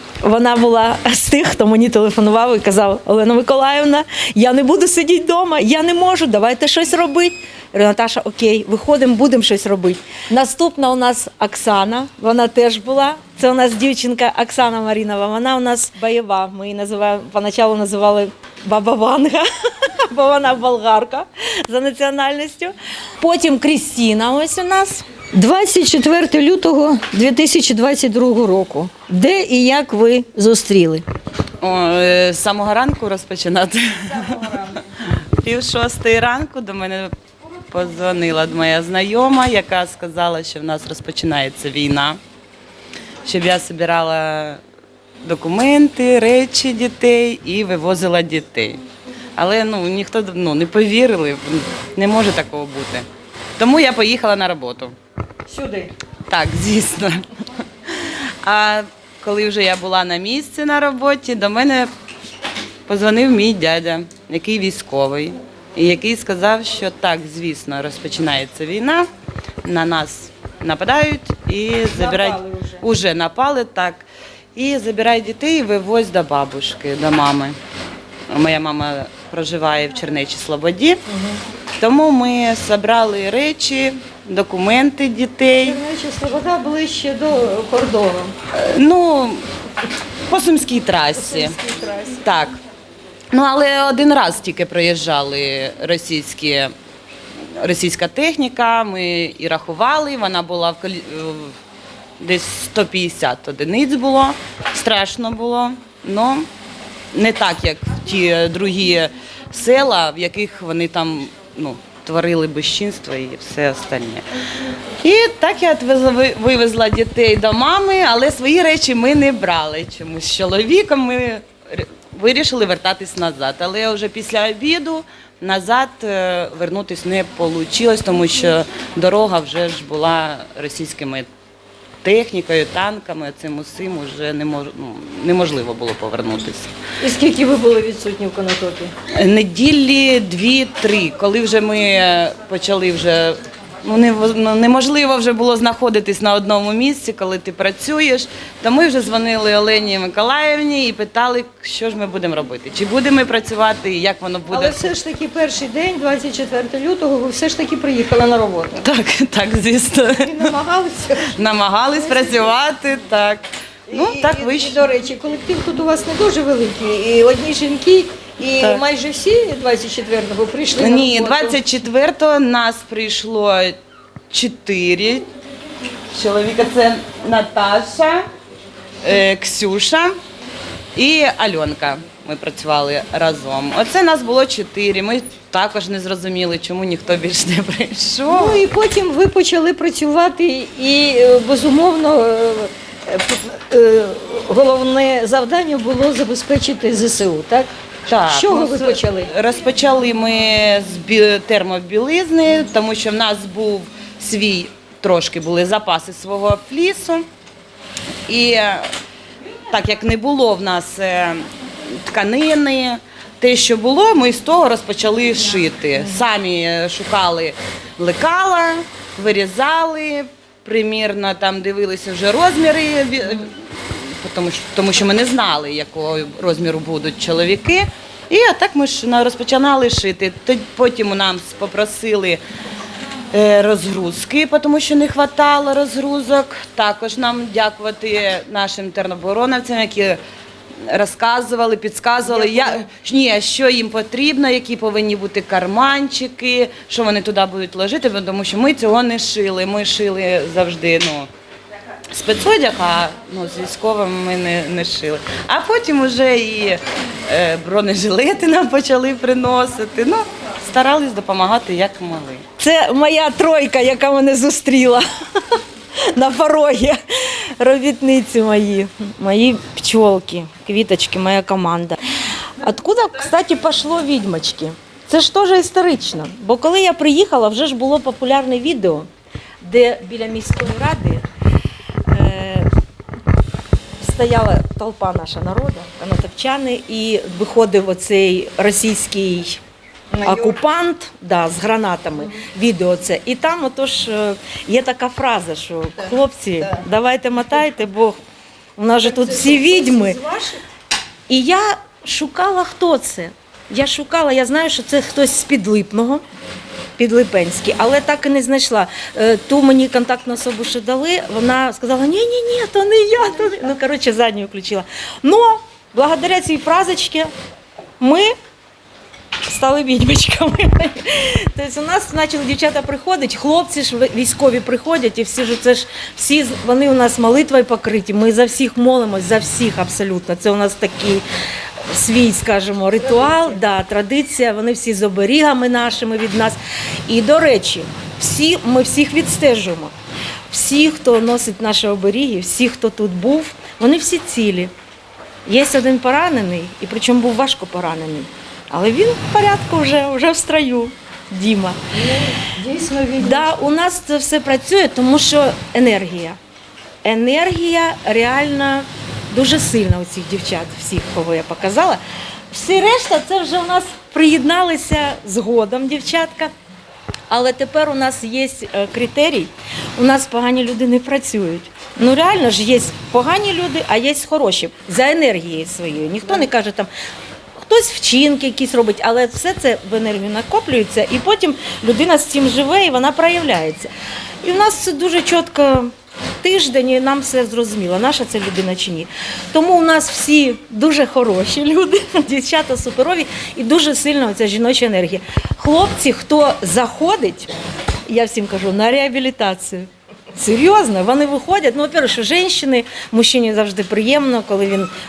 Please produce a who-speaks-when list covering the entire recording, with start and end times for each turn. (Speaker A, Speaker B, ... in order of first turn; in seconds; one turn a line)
Speaker A: 0.2-25.0
Speaker B: 25.3-31.0
Speaker C: 31.6-37.1
Speaker B: 34.3-34.6
Speaker C: 37.7-42.2
Speaker C: 43.2-44.6
Speaker C: 45.2-48.8
Speaker C: 49.4-53.1
Speaker C: 53.6-54.9
Speaker B: 55.5-55.9
Speaker C: 56.3-57.2
Speaker C: 57.9-61.9
Speaker C: 62.9-69.1
Speaker C: 69.6-77.6
Speaker B: 72.0-72.8
Speaker C: 78.3-81.0
Speaker B: 81.1-81.4
Speaker C: 81.8-85.8
Speaker B: 85.6-88.3
Speaker C: 88.5-89.5
Speaker C: 90.3-91.6
Speaker B: 91.2-92.2
Speaker C: 92.2-92.6
Speaker C: 93.3-96.7
Speaker C: 97.6-101.5
Speaker C: 102.2-106.5
Speaker C: 107.1-114.2
Speaker C: 115.0-131.3
Speaker C: 132.0-136.7
Speaker B: 137.0-138.9
Speaker C: 139.2-154.9
Speaker B: 154.5-158.8
Speaker C: 158.8-160.5
Speaker B: 160.2-161.3
Speaker C: 161.3-164.9
Speaker B: 161.9-162.5
Speaker B: 163.9-171.6
Speaker C: 170.8-173.8
Speaker C: 174.3-175.3
Speaker C: 176.1-178.2
Speaker C: 179.0-180.2
Speaker C: 180.9-188.7
Speaker B: 188.3-197.7
Speaker C: 198.1-207.2
Speaker B: 198.3-199.3
Speaker C: 208.3-208.9
Speaker C: 209.7-232.4
Speaker C: 233.3-240.2
Speaker C: 240.8-251.3
Speaker C: 252.1-262.4
Speaker A: 262.6-265.6
Speaker A: 266.1-272.0
Speaker A: 272.6-279.1
Speaker A: 279.6-281.2
Speaker A: 282.1-282.7
Speaker A: 284.0-289.6
Speaker B: 290.1-290.5
Speaker A: 290.2-298.2
Speaker A: 298.8-300.2
Speaker B: 299.2-300.6
Speaker A: 301.3-306.2
Speaker A: 307.0-317.3
Speaker A: 318.0-318.3
Speaker A: 319.4-331.2
Speaker A: 331.9-339.9
Speaker A: 340.5-344.7
Speaker A: 345.4-351.8
Speaker B: 352.0-353.4
Speaker A: 353.2-356.4
Speaker A: 357.0-362.0
Speaker A: 362.5-366.5
Speaker A: 367.3-376.9
Speaker A: 377.6-383.9
Speaker A: 384.4-397.5
Speaker A: 398.1-404.9